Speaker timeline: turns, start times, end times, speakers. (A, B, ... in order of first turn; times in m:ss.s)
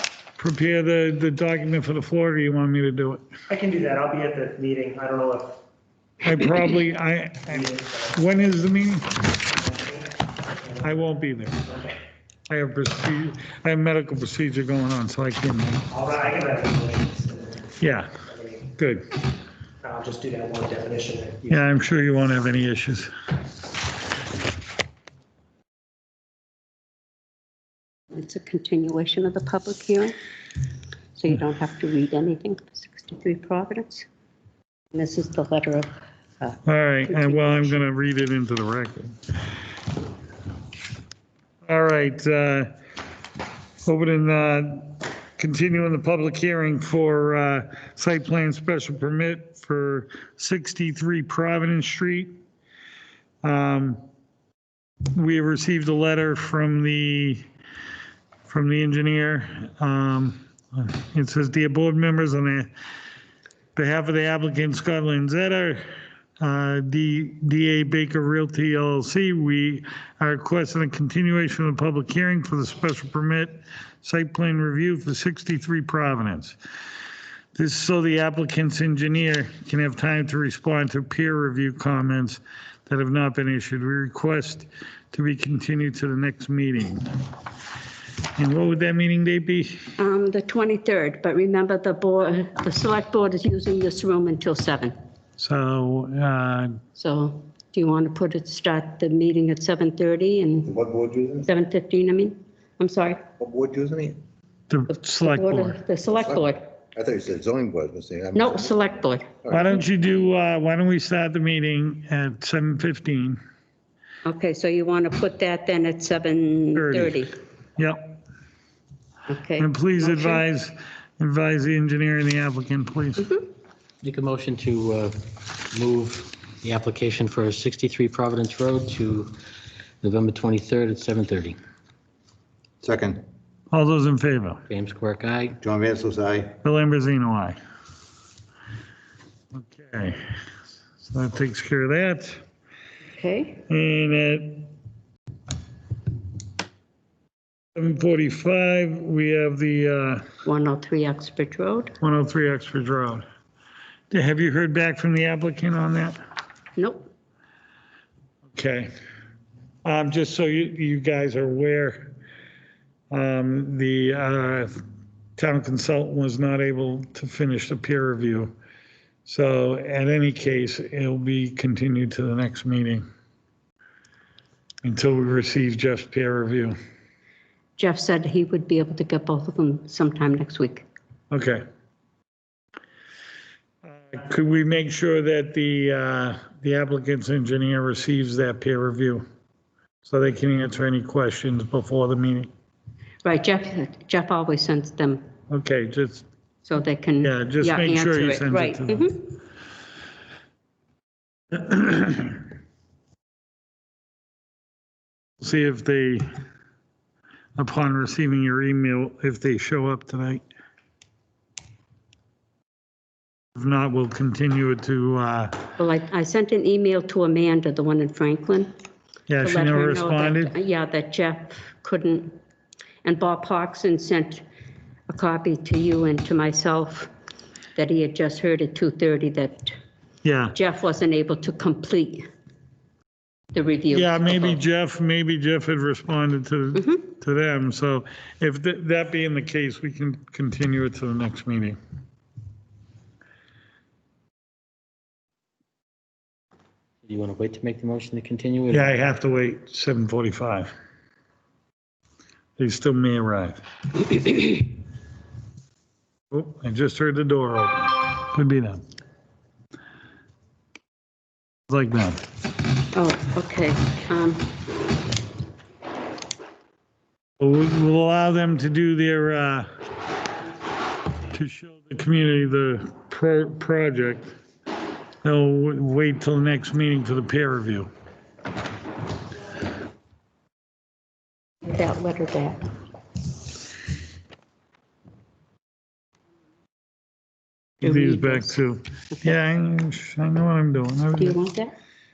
0:00.4-0:03.2 A
0:03.5-0:05.6 B
0:06.2-0:09.4 A
0:07.5-0:08.1 B
0:09.7-0:10.0 B
0:10.8-0:11.6 A
0:12.5-0:15.8 A
0:15.9-0:17.6 B
0:17.8-0:18.1 A
0:18.3-0:18.6 B
0:18.7-0:19.0 A
0:19.8-0:21.5 B
0:21.5-0:23.1 A
0:28.1-0:30.1 C
0:31.1-0:34.0 C
0:34.9-0:37.8 C
0:36.6-0:39.2 A
0:41.6-0:42.7 A
0:43.8-0:52.4 A
0:53.4-0:54.0 A
0:55.1-0:57.4 A
0:58.5-1:02.7 A
1:03.8-1:05.8 A
1:06.4-1:16.6 A
1:17.5-1:27.1 A
1:28.4-1:29.9 A
1:30.0-1:34.9 C
1:35.4-1:36.8 A
1:37.0-1:40.7 C
1:40.7-1:41.4 D
1:41.4-1:43.2 C
1:43.4-1:44.2 D
1:44.7-1:45.8 A
1:44.9-1:46.7 C
1:46.2-1:46.4 D
1:46.9-1:48.7 D
1:48.3-1:49.3 C
1:49.5-1:53.4 A
1:54.2-1:57.4 C
1:56.8-1:57.2 A
1:57.8-1:58.2 A
1:59.3-2:00.4 C
1:59.6-2:03.4 A
2:04.0-2:09.3 E
2:10.0-2:11.6 E
2:12.8-2:13.2 D
2:13.7-2:14.6 A
2:14.7-2:15.6 E
2:15.6-2:16.5 D
2:16.6-2:17.6 A
2:19.5-2:20.2 A
2:21.0-2:22.4 A
2:23.1-2:23.6 C
2:23.7-2:24.7 A
2:27.8-2:30.2 A
2:30.4-2:31.9 C
2:32.0-2:33.2 A
2:34.1-2:36.2 A
2:36.8-2:37.1 C
2:38.5-2:38.9 A
2:39.8-2:42.1 A
2:43.1-2:44.7 A
2:45.4-2:48.5 A
2:49.2-2:53.0 A
2:54.8-2:56.7 A
2:57.8-3:00.8 C
3:01.3-3:01.6 A
3:03.8-3:09.2 A
3:10.0-3:12.5 A
3:13.2-3:15.2 C
3:15.5-3:16.2 A
3:16.6-3:19.3 C
3:17.2-3:19.1 A
3:21.5-3:22.4 A
3:25.4-3:26.2 A
3:27.6-3:30.4 A
3:33.5-3:35.6 A
3:35.8-3:38.7 C
3:39.3-3:40.5 A
3:39.4-3:42.4 C
3:43.0-3:44.4 C
3:45.1-3:47.1 C
3:47.7-3:49.7 C
3:50.2-3:50.6 A
3:50.5-3:52.2 C
3:53.5-3:54.6 C
3:53.9-4:01.8 A
4:07.0-4:08.9 E
4:08.7-4:10.7 A
4:12.6-4:13.6 A
4:14.2-4:14.5 A
4:16.3-4:18.8 A
4:21.7-4:22.2 A
4:22.9-4:24.6 C
4:27.4-4:29.7 A
4:31.3-4:34.3 A
4:35.2-4:37.9 A
4:41.6-4:42.6 C
4:47.8-4:51.4 A
4:47.8-4:48.6 C
4:51.2-4:51.7 C